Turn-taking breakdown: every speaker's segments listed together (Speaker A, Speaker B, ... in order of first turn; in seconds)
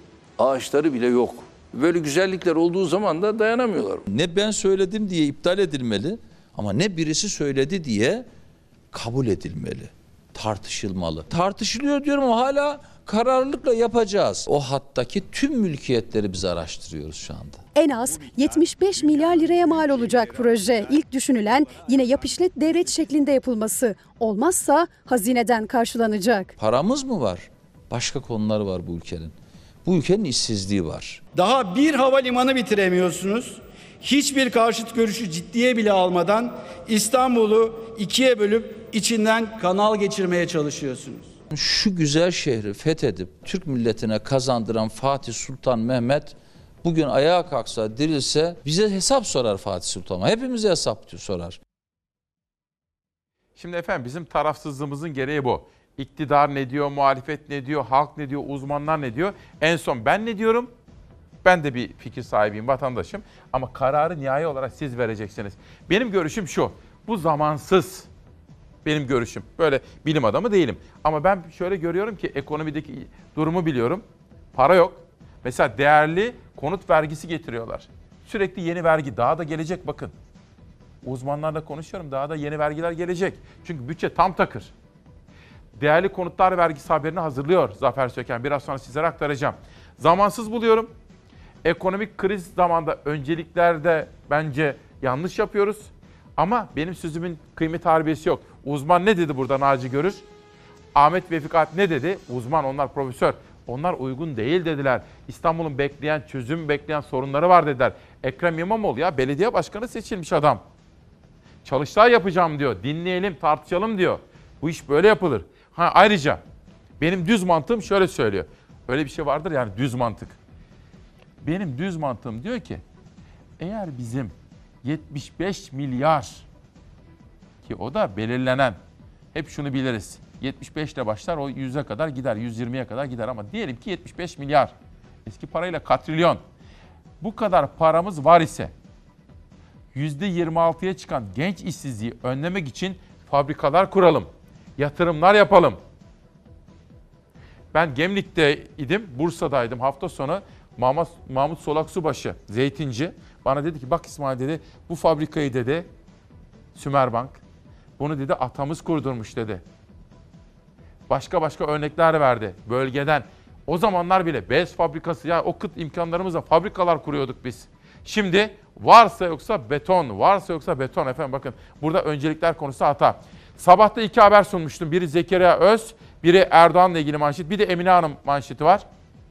Speaker A: 0.4-4.0
Speaker B: 4.1-8.3, 8.9-17.6, 26.6-31.2, 41.5-51.6
Speaker C: 17.8-26.5
Speaker D: 31.3-41.3
Speaker E: 53.6-60.7, 61.4-68.1, 68.8-80.1, 81.0-84.7, 85.8-90.9, 91.6-100.2, 100.9-110.6, 111.6-116.4, 117.0-120.4, 121.4-122.8, 123.6-126.5, 127.6-128.8, 129.3-134.7, 135.2-136.4, 137.2-138.7, 139.9-145.8, 147.7-155.9, 156.8-157.4, 158.0-159.6, 161.1-178.8